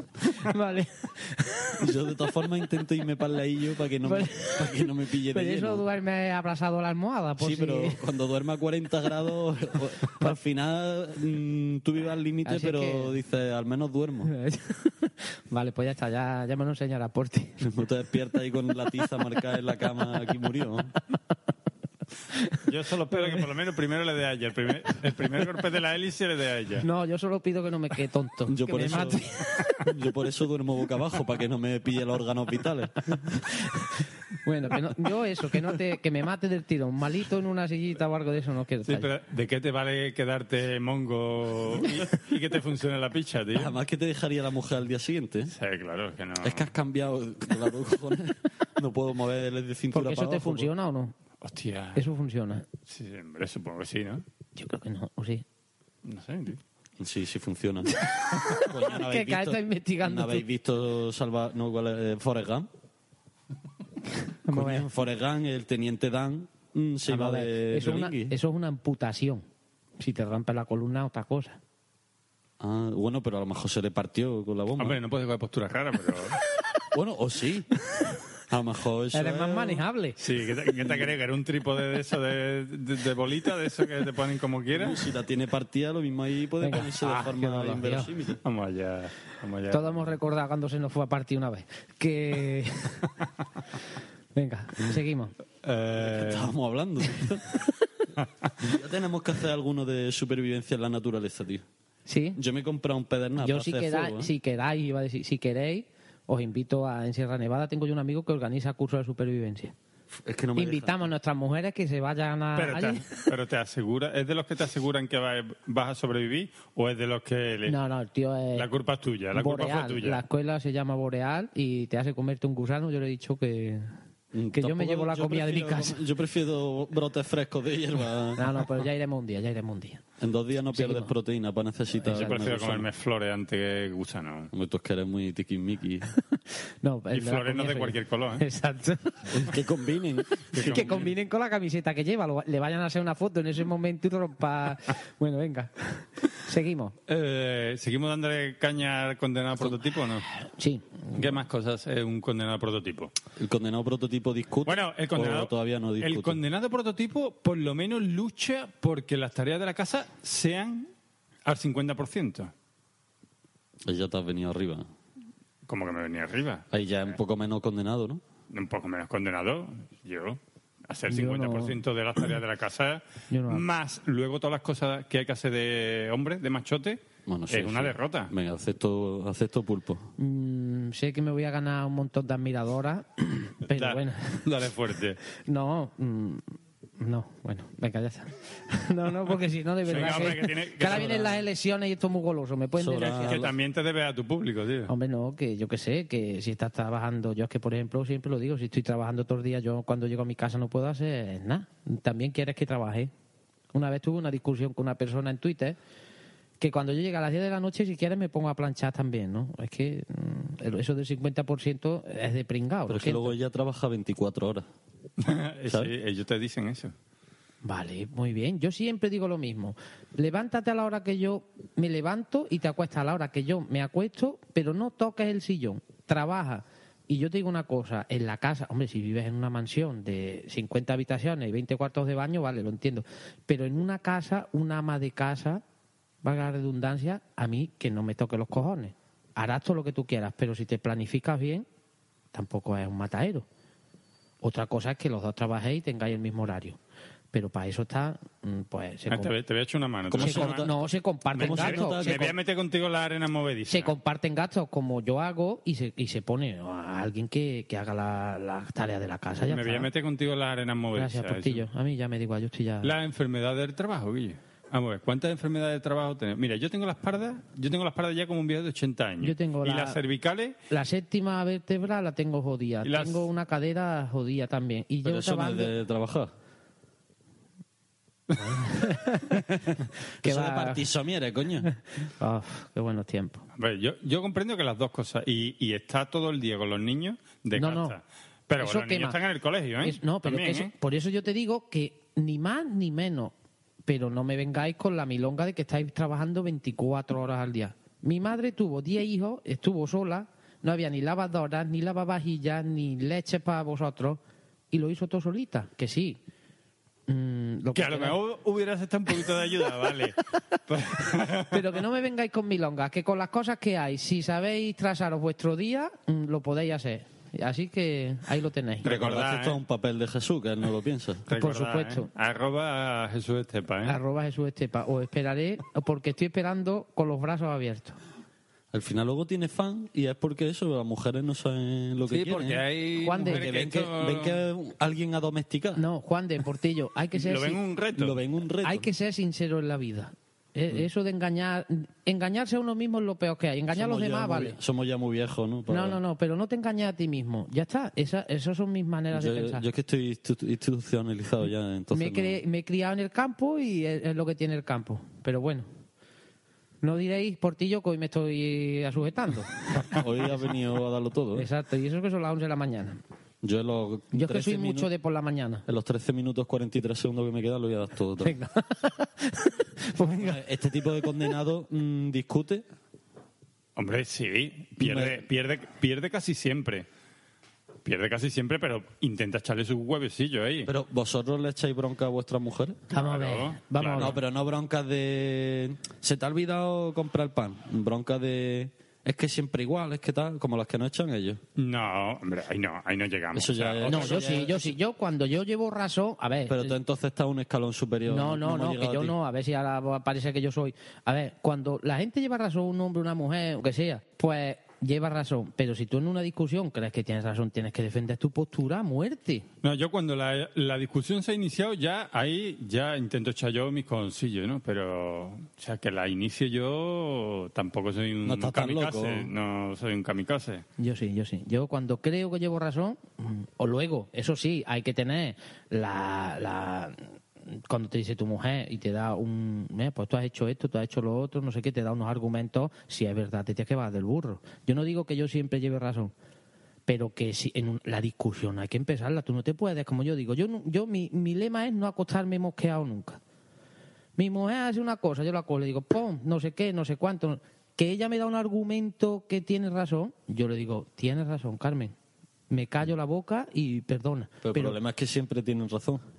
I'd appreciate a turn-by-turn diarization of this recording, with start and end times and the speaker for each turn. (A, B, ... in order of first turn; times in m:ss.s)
0:00.3-0:01.8 A
0:01.8-0:05.8 B
0:04.0-0:08.0 A
0:07.4-0:14.3 B
0:12.4-0:13.2 A
0:14.3-0:17.6 A
0:17.6-0:20.9 B
0:22.4-0:22.6 A
0:22.6-0:26.9 C
0:23.1-0:23.4 A
0:26.8-0:29.8 A
0:28.5-0:29.2 B
0:29.8-0:33.0 B
0:34.4-0:39.1 A
0:38.9-0:43.8 C
0:43.5-0:45.5 B
0:45.5-0:46.7 C
0:46.4-0:50.7 B
0:49.9-0:51.1 A
0:51.4-0:52.0 C
0:52.0-0:52.6 A
0:52.9-0:54.2 C
0:54.6-0:55.4 A
0:56.0-0:56.6 C
0:57.0-1:02.7 B
0:58.1-1:00.4 A
1:04.5-1:04.9 A
1:04.5-1:08.3 B
1:07.1-1:09.4 A
1:10.0-1:11.6 A
1:12.6-1:15.0 B
1:14.8-1:16.4 C
1:16.9-1:17.7 B
1:18.5-1:19.8 B
1:19.1-1:20.2 A
1:20.2-1:25.0 C
1:20.8-1:21.1 B
1:24.7-1:28.4 B
1:26.6-1:28.1 A
1:28.4-1:30.1 C
1:29.7-1:33.1 A
1:34.3-1:35.3 A
1:35.6-1:36.5 C
1:36.0-1:37.7 B
1:38.6-1:41.6 B
1:42.1-1:42.4 A
1:42.4-1:44.3 B
1:43.4-1:49.7 A
1:50.2-1:51.1 B
1:50.6-1:53.1 A
1:52.6-1:57.8 C
1:57.7-1:58.7 A
1:58.6-2:00.2 C
1:59.3-2:03.9 A
2:04.3-2:08.6 B
2:04.5-2:06.0 A
2:08.4-2:10.0 A
2:10.2-2:12.9 B
2:10.7-2:11.1 A
2:12.0-2:14.5 C
2:14.5-2:16.1 B
2:16.8-2:19.5 A
2:17.1-2:18.4 C
2:19.3-2:21.1 B
2:20.5-2:21.1 C
2:20.6-2:27.0 A
2:27.1-2:30.3 C
2:30.4-2:31.0 A
2:31.1-2:33.1 C
2:33.4-2:36.4 B
2:34.7-2:40.9 C
2:41.5-2:42.5 C
2:43.9-2:44.9 B
2:45.7-2:46.6 C
2:46.7-2:48.2 B
2:48.5-2:58.3 C
2:51.1-2:51.8 A
2:53.3-2:53.7 A
2:57.3-3:00.1 B
3:00.2-3:04.5 A
3:03.7-3:05.2 C
3:05.4-3:13.4 A
3:09.9-3:11.4 C
3:12.8-3:13.5 B
3:13.0-3:14.9 C
3:14.9-3:23.1 A
3:23.7-3:25.8 A
3:26.6-3:33.3 A
3:32.9-3:34.7 B
3:35.2-3:36.9 C
3:37.6-3:55.6 A
3:56.2-4:01.7 A
4:02.3-4:03.5 A
4:04.4-4:06.8 A
4:07.3-4:09.3 A
4:09.1-4:10.7 C
4:10.1-4:10.8 B
4:10.2-4:12.3 A
4:11.4-4:14.0 C
4:11.4-4:12.3 B
4:13.7-4:19.9 A
4:19.5-4:21.7 C
4:21.0-4:22.9 A
4:22.8-4:30.6 C
4:29.2-4:30.0 A
4:30.7-4:35.7 A
4:32.8-4:33.3 C
4:35.0-4:36.3 B
4:38.4-4:39.5 A
4:39.4-4:41.7 B
4:40.2-4:40.9 A
4:41.6-4:43.4 A
4:43.6-4:50.7 C
4:47.6-4:48.0 A
4:48.6-4:49.2 A
4:49.8-4:53.3 A
4:53.9-5:04.2 A
5:04.7-5:06.2 A
5:07.1-5:08.2 A
5:07.8-5:11.6 C
5:11.4-5:18.9 A
5:18.8-5:19.6 C
5:18.8-5:21.3 B
5:21.3-5:24.0 C
5:21.3-5:22.1 A
5:23.8-5:28.0 A
5:28.7-5:32.6 B
5:32.1-5:34.4 C
5:33.0-5:33.4 A
5:33.2-5:35.8 B
5:35.8-5:37.6 A
5:37.2-5:38.2 C
5:38.0-5:38.9 B
5:38.6-5:44.6 A
5:43.7-5:46.0 B
5:45.7-5:49.6 A
5:49.1-5:52.4 B
5:51.9-5:55.7 A
5:56.8-6:00.0 A
5:59.8-6:01.5 B
6:01.3-6:03.0 A
6:03.4-6:04.9 B
6:04.1-6:05.6 A
6:05.7-6:08.4 B
6:08.2-6:10.4 A
6:10.2-6:12.6 B
6:13.8-6:16.9 C
6:14.8-6:15.2 B
6:17.8-6:20.7 C
6:20.6-6:22.8 B
6:22.9-6:24.2 A
6:22.9-6:24.1 C
6:24.0-6:31.4 B
6:31.6-6:34.3 C
6:33.3-6:34.8 B
6:33.9-6:36.8 A
6:36.5-6:39.2 B
6:38.1-6:49.5 A
6:49.6-7:00.6 C
6:58.2-6:59.3 B
7:00.8-7:16.1 A
7:16.9-7:23.2 A
7:24.2-7:31.9 A
7:32.5-7:34.8 A
7:34.4-7:36.0 B